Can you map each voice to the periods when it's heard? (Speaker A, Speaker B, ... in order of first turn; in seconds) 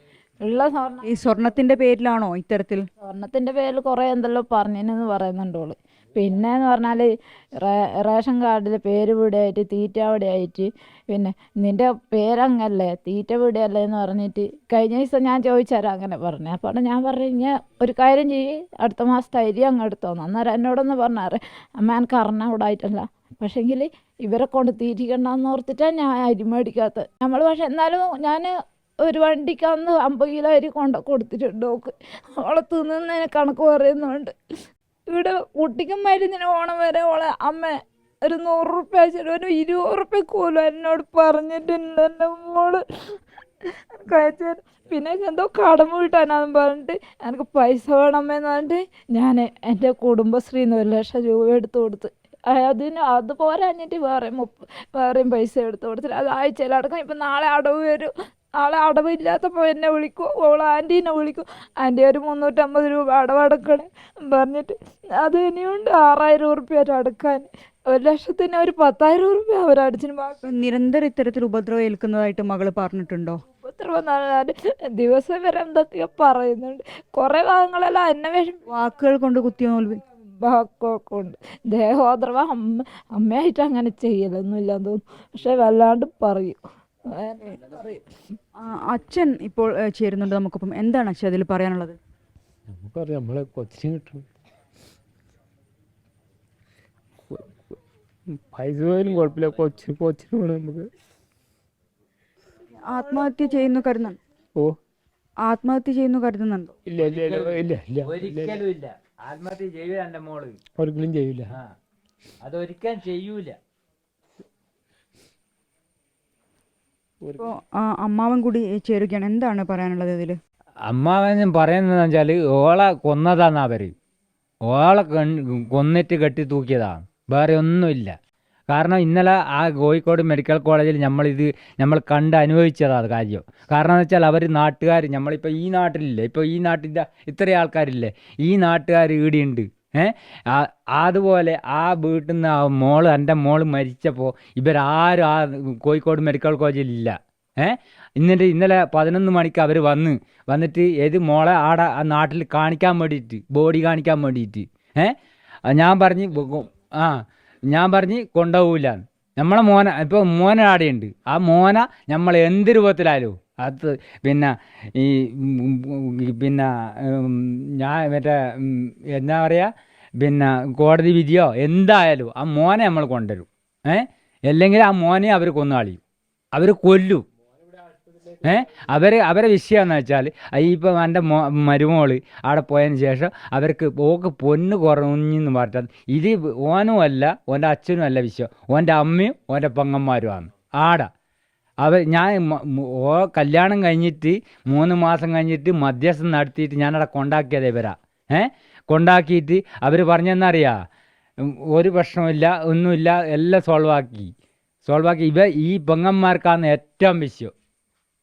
Speaker A: 0.4-1.1, 3.0-28.5, 29.0-34.3, 35.1-43.2, 44.0-70.4, 73.6-78.6, 80.4-86.6, 87.1-88.1
Speaker B: 1.1-2.9, 70.4-73.4, 78.7-80.0, 88.6-92.0, 102.9-104.2, 105.4-106.7, 117.4-120.4
Speaker C: 92.7-94.3, 97.3-100.9, 106.9-108.6, 110.8-111.5, 117.2-117.5
Speaker D: 107.0-110.6, 112.4-113.6, 120.9-123.9, 124.7-128.1, 128.7-155.2, 155.7-169.7, 170.2-176.0, 176.5-177.2, 178.4-191.1, 191.8-200.8, 201.4-204.3, 204.8-207.5